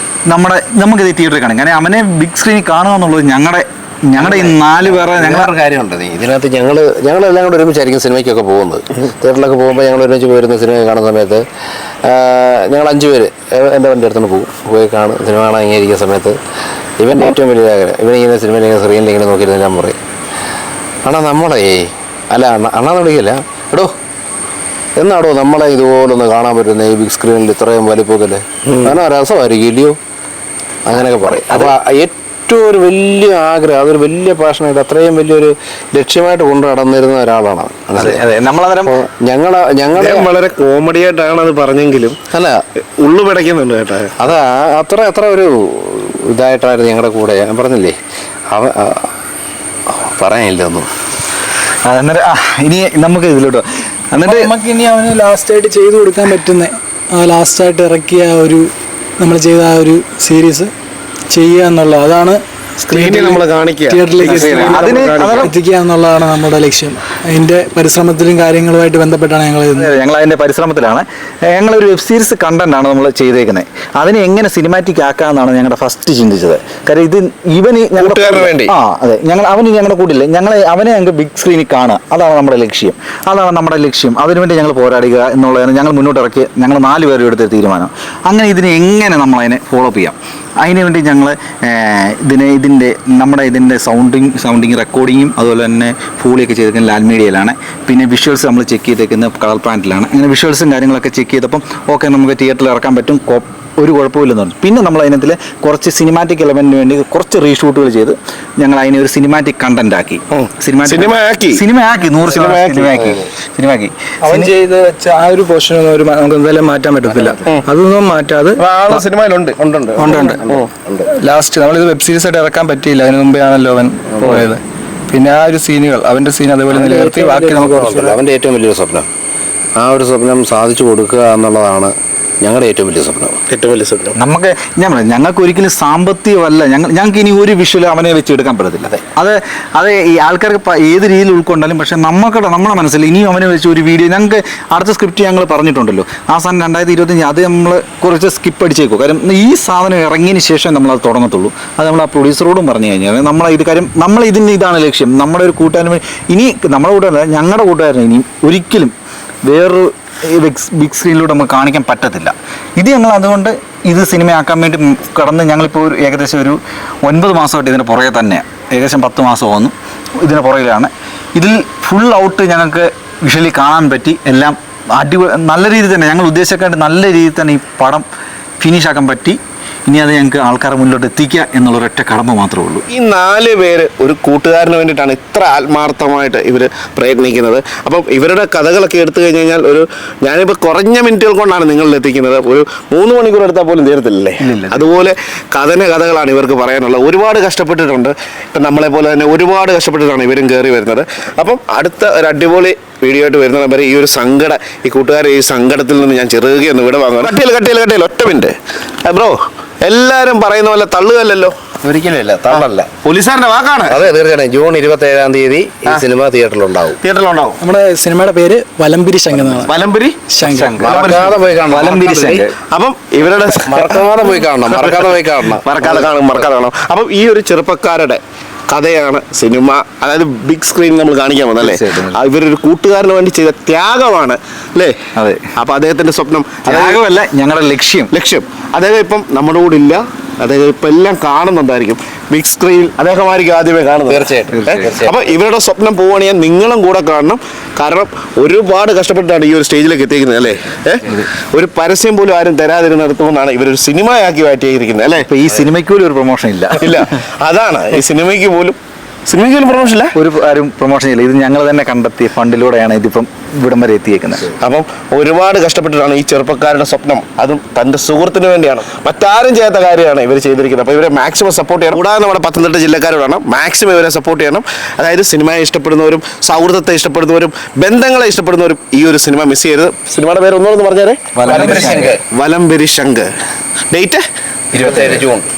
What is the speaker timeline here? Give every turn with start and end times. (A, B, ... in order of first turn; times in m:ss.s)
0:00.3-0:05.5 A
0:04.2-0:11.4 B
0:12.0-0:16.4 B
0:17.0-0:20.0 B
0:21.0-0:23.9 B
0:25.0-0:30.0 B
0:30.8-0:38.2 B
0:31.5-0:31.7 A
0:37.9-0:39.0 A
0:38.8-0:40.3 B
0:39.9-0:42.2 C
0:42.3-0:42.6 B
0:43.0-0:44.2 C
0:44.2-0:48.0 B
0:48.5-0:49.1 B
0:49.9-0:50.9 B
0:51.8-0:54.5 A
0:54.2-1:00.7 D
1:01.3-1:09.9 D
1:02.9-1:05.5 C
1:04.2-1:05.5 A
1:09.7-1:54.5 A
1:18.0-1:18.7 C
1:50.3-1:51.6 C
1:52.3-1:53.0 C
1:54.2-1:59.0 E
1:57.1-1:57.6 B
1:58.6-1:59.6 C
1:59.6-2:01.1 B
2:00.0-2:00.4 E
2:01.1-2:08.2 E
2:04.2-2:04.5 B
2:06.7-2:09.1 B
2:09.8-2:13.5 B
2:13.5-2:14.2 C
2:14.2-2:38.9 A
2:39.4-2:58.0 A
2:58.6-3:02.8 A
3:02.9-3:31.7 C
3:14.4-3:14.9 A
3:31.8-3:32.9 B
3:32.5-3:34.0 C
3:33.9-3:37.0 B
3:37.0-3:37.6 C
3:37.6-3:39.8 D
3:39.3-3:39.7 B
3:39.6-3:40.2 C
3:40.3-3:40.8 D
3:40.4-3:42.6 A
3:40.8-3:41.3 C
3:40.8-3:42.4 B
3:42.7-3:55.0 C
3:43.6-3:46.2 B
3:51.6-3:52.2 A
3:55.2-3:55.5 A
3:55.6-3:57.0 C
3:56.6-3:58.1 A
3:58.1-4:15.3 C
4:04.1-4:05.2 B
4:04.5-4:04.9 A
4:15.2-4:17.0 A
4:16.8-4:20.1 C
4:20.2-4:24.5 A
4:24.5-4:43.3 C
4:41.3-4:42.2 A
4:41.4-4:42.2 B
4:43.9-4:45.3 C
4:44.7-4:45.4 B